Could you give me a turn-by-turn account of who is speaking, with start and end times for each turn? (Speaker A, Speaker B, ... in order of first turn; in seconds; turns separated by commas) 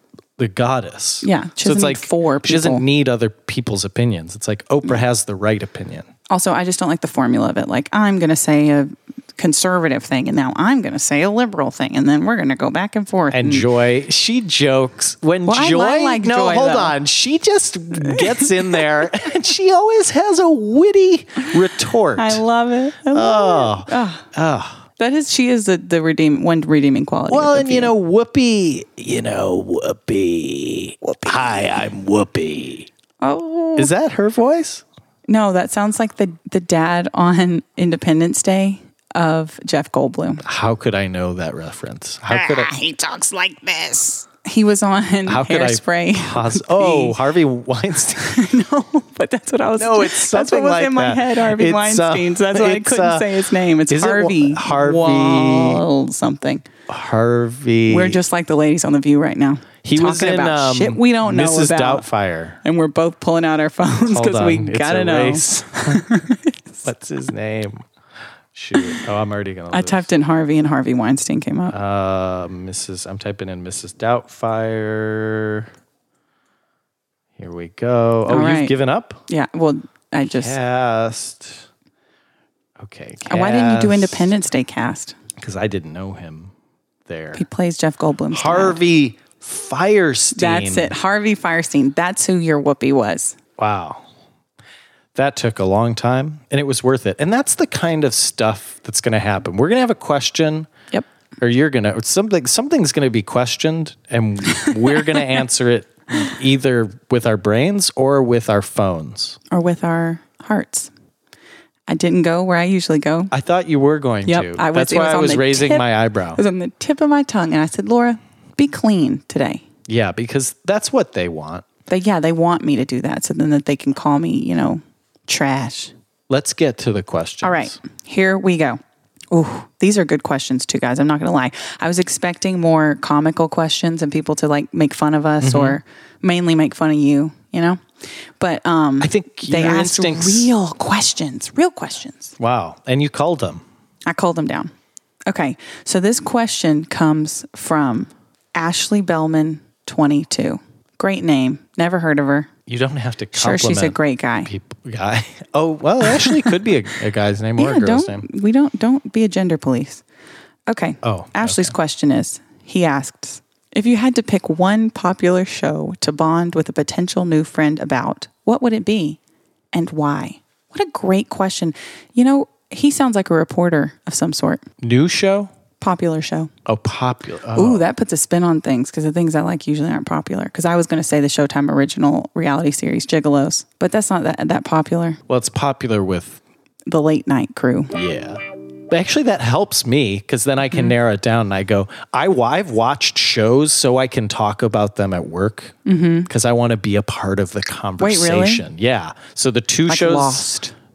Speaker A: 0.4-6.1, Speaker B: 1.2-2.8, Speaker B: 6.3-13.7, Speaker A: 13.3-22.4, Speaker B: 15.4-17.0, Speaker B: 18.0-18.8, Speaker B: 22.1-24.2, Speaker A: 23.1-24.8, Speaker B: 25.0-27.9, Speaker A: 27.3-32.9, Speaker B: 31.0-31.8, Speaker B: 33.2-33.9, Speaker A: 33.8-34.8, Speaker B: 35.3-40.4, Speaker A: 40.4-42.7, Speaker B: 42.3-47.2, Speaker A: 45.2-48.4, Speaker B: 48.2-56.7, Speaker A: 49.8-55.8, Speaker A: 56.9-58.2, Speaker B: 57.9-62.0, Speaker A: 59.8-62.6, Speaker B: 62.6-66.8, Speaker A: 64.1-66.1, Speaker A: 66.8-67.8, Speaker A: 68.5-70.1, Speaker B: 68.7-69.0, Speaker B: 69.7-71.8, Speaker A: 71.7-75.7, Speaker A: 77.4-79.2, Speaker B: 78.3-78.7, Speaker B: 79.3-80.5, Speaker A: 80.3-81.7, Speaker A: 82.8-84.3, Speaker B: 83.2-85.2, Speaker A: 85.4-86.5, Speaker A: 87.0-87.4, Speaker B: 87.3-88.8, Speaker A: 88.3-90.9, Speaker B: 90.3-93.4, Speaker A: 93.6-94.0, Speaker A: 95.1-100.7, Speaker A: 101.4-109.4, Speaker B: 104.6-105.1, Speaker B: 109.5-110.9, Speaker B: 111.9-113.3, Speaker A: 113.3-116.4, Speaker B: 114.2-119.6, Speaker A: 119.9-121.6, Speaker B: 121.9-125.9, Speaker A: 126.3-127.8, Speaker B: 127.4-128.8, Speaker B: 129.3-137.8, Speaker A: 135.4-135.8, Speaker B: 138.4-142.3, Speaker A: 139.0-140.5, Speaker A: 142.4-143.6, Speaker B: 144.1-144.7, Speaker B: 145.3-152.5, Speaker A: 152.7-158.2, Speaker B: 153.3-154.5, Speaker B: 156.1-156.5, Speaker B: 157.6-160.0, Speaker B: 160.7-169.2, Speaker A: 161.0-161.7, Speaker B: 169.7-174.6, Speaker A: 174.8-175.5, Speaker B: 175.8-176.5, Speaker A: 176.7-177.8, Speaker B: 177.5-185.2, Speaker A: 185.3-186.4, Speaker B: 186.9-187.9, Speaker A: 187.9-195.7, Speaker B: 195.8-196.3, Speaker A: 196.3-200.5, Speaker B: 198.0-198.7, Speaker B: 199.9-200.7